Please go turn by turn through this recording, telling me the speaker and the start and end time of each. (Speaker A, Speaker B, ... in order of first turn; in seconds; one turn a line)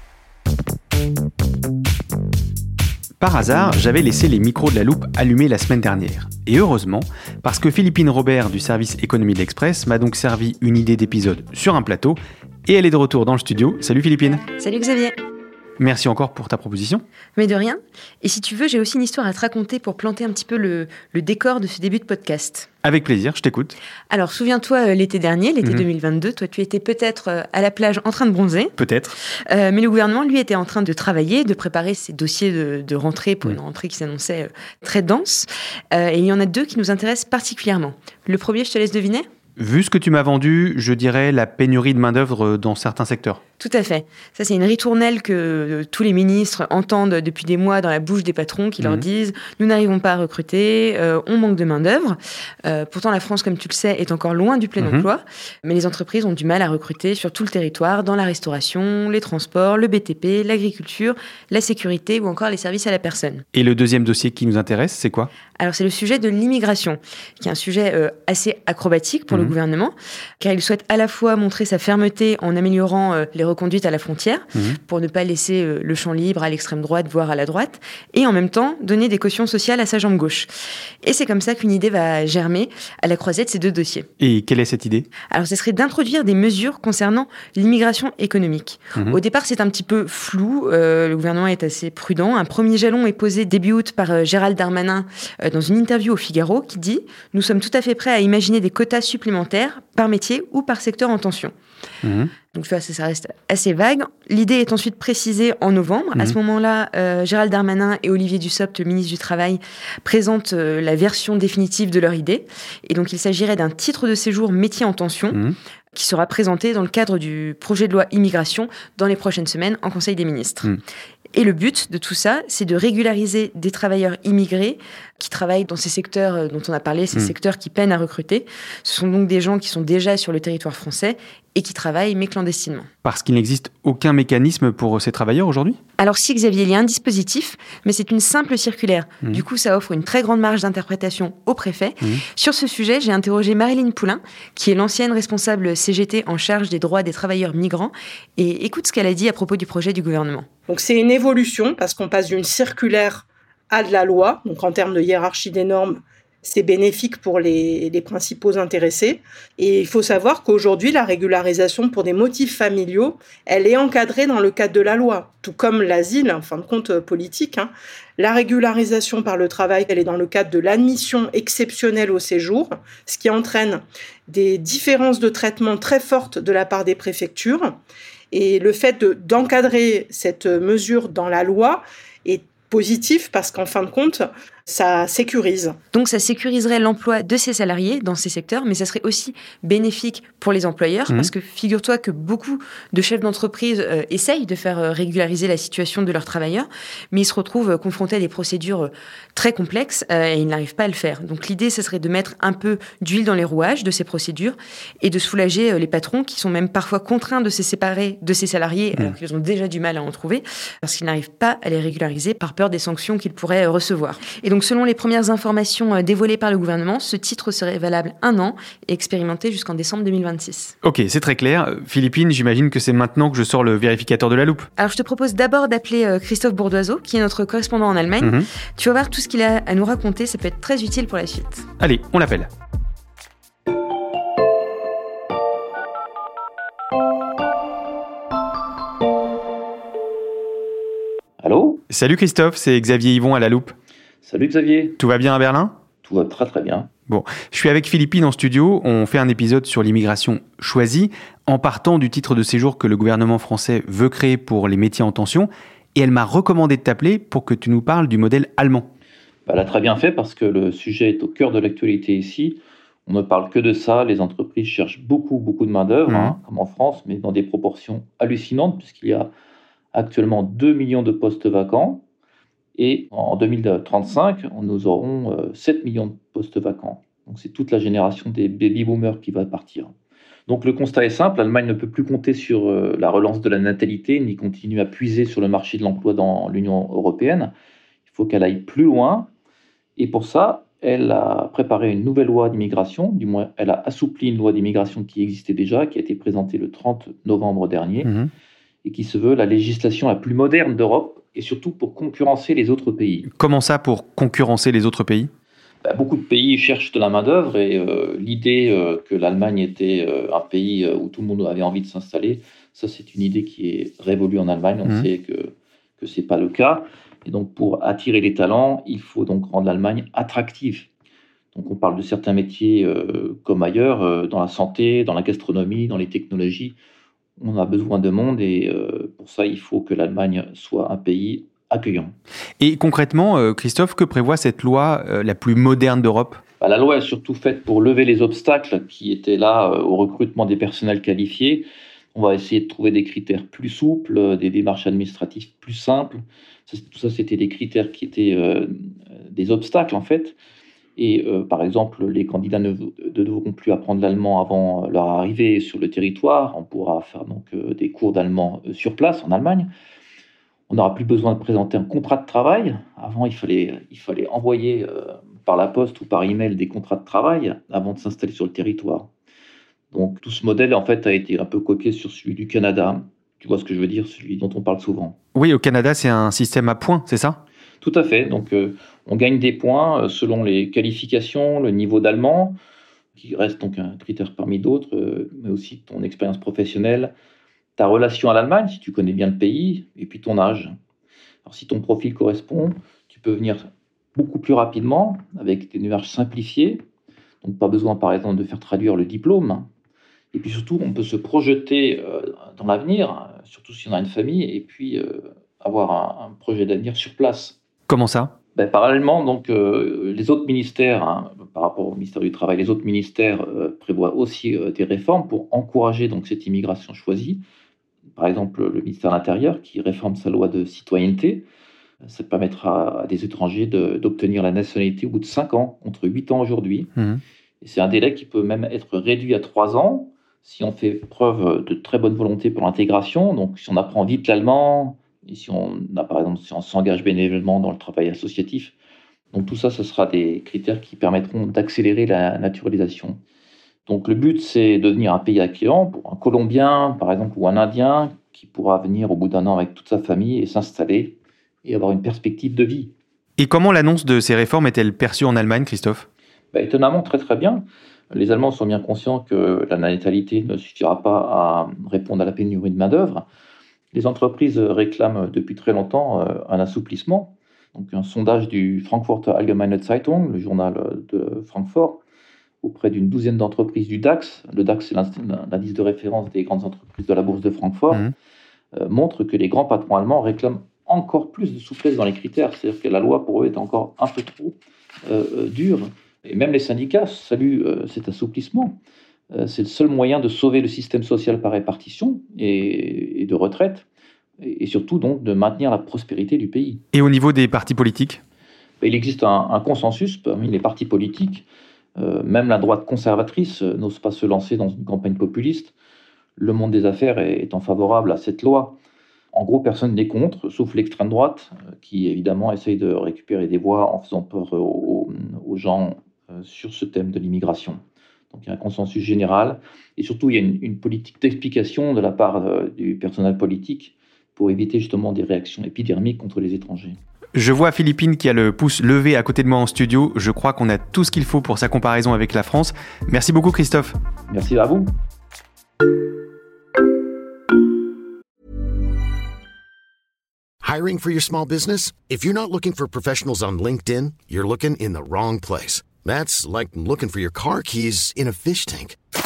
Speaker A: 3.2-14.4
Speaker B: 14.5-15.2
Speaker A: 15.8-17.0
Speaker B: 17.4-22.7
Speaker A: 22.8-23.8
Speaker B: 24.1-28.7
Speaker A: 28.8-29.1
Speaker B: 29.5-39.2
Speaker A: 39.6-43.4
Speaker B: 43.6-63.5
Speaker A: 63.5-65.3
Speaker B: 65.6-80.5
Speaker B: 81.0-84.1
Speaker A: 84.2-85.1
Speaker B: 85.3-101.5
Speaker A: 102.0-102.3
Speaker B: 102.5-115.4
Speaker B: 115.9-120.7
Speaker B: 121.3-132.9
Speaker A: 133.0-135.8
Speaker B: 136.0-150.5
Speaker C: 150.7-177.8
Speaker C: 178.3-185.8
Speaker B: 185.9-220.7
Speaker A: 220.8-224.7
Speaker B: 224.8-231.7
Speaker A: 228.2-228.5
Speaker A: 231.8-232.5
Speaker D: 241.4-241.8
Speaker A: 241.9-243.7
Speaker D: 244.2-245.0
Speaker A: 245.0-245.7
Speaker D: 246.0-246.9
Speaker A: 247.1-258.9
Speaker D: 259.5-269.3
Speaker A: 266.1-266.4
Speaker D: 269.9-272.0
Speaker D: 272.8-279.9
Speaker D: 280.5-287.5
Speaker D: 288.1-289.3
Speaker D: 290.0-298.1
Speaker A: 298.0-298.3
Speaker D: 298.9-303.3
Speaker A: 303.4-305.3
Speaker D: 305.8-320.9
Speaker D: 321.5-326.8
Speaker D: 327.4-332.1
Speaker A: 332.6-336.4
Speaker D: 336.6-346.2
Speaker D: 346.7-350.4
Speaker D: 351.0-359.7
Speaker D: 360.7-369.1
Speaker D: 369.9-375.2
Speaker A: 375.4-377.4
Speaker D: 377.8-382.6
Speaker D: 383.2-387.1
Speaker D: 387.8-390.7
Speaker D: 391.5-396.8
Speaker D: 397.4-399.7
Speaker D: 400.3-407.6
Speaker A: 407.9-408.3
Speaker D: 408.6-417.4
Speaker D: 418.2-421.4
Speaker D: 422.1-426.9
Speaker A: 427.0-427.2
Speaker D: 427.6-438.7
Speaker D: 439.3-443.2
Speaker D: 443.9-452.9
Speaker A: 453.4-456.1
Speaker D: 456.5-463.2
Speaker D: 463.9-472.0
Speaker D: 472.6-478.1
Speaker D: 478.8-488.8
Speaker D: 489.3-493.9
Speaker D: 494.4-496.8
Speaker A: 496.9-498.2
Speaker D: 498.8-501.4
Speaker D: 502.0-505.7
Speaker D: 506.4-508.8
Speaker D: 509.3-527.0
Speaker A: 527.4-534.0
Speaker D: 534.3-534.9
Speaker E: 540.6-549.0